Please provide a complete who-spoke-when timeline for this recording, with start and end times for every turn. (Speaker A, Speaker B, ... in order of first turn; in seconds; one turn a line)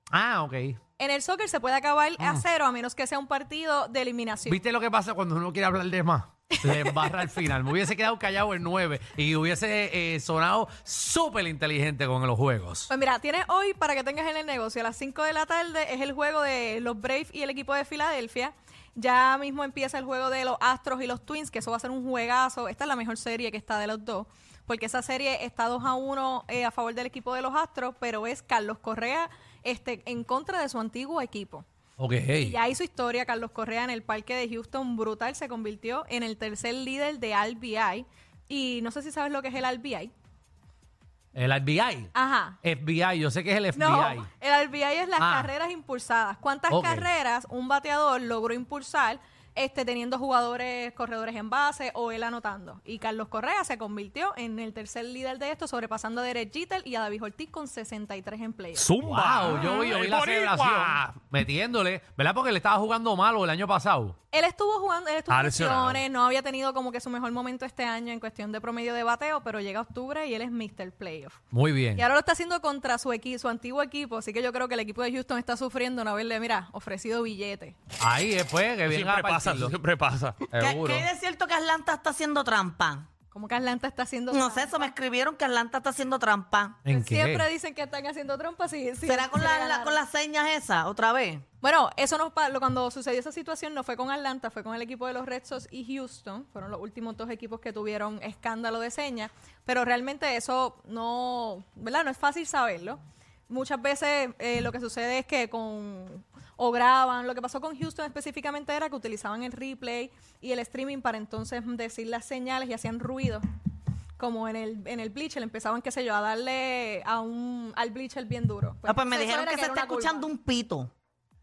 Speaker A: 0.1-0.8
Speaker B: 1.0-4.6
Speaker A: 2.2-2.4
Speaker A: 4.5-12.9
Speaker B: 6.6-7.1
Speaker B: 12.9-31.6
Speaker A: 32.0-32.6
Speaker B: 32.3-40.1
Speaker A: 41.3-42.1
Speaker B: 42.1-42.6
Speaker A: 42.6-44.3
Speaker B: 43.7-58.9
Speaker A: 45.2-45.5
Speaker A: 46.7-47.1
Speaker C: 58.7-61.0
Speaker A: 59.0-64.2
Speaker B: 64.3-71.4
Speaker C: 65.3-66.0
Speaker A: 71.5-72.0
Speaker B: 71.9-77.8
Speaker A: 78.0-79.8
Speaker C: 78.9-80.5
Speaker A: 80.5-81.1
Speaker D: 80.5-83.1
Speaker B: 83.3-84.9
Speaker D: 84.3-86.8
Speaker A: 86.8-87.5
Speaker B: 86.9-90.0
Speaker D: 89.0-91.4
Speaker B: 91.6-113.4
Speaker B: 114.2-120.3
Speaker D: 118.9-120.9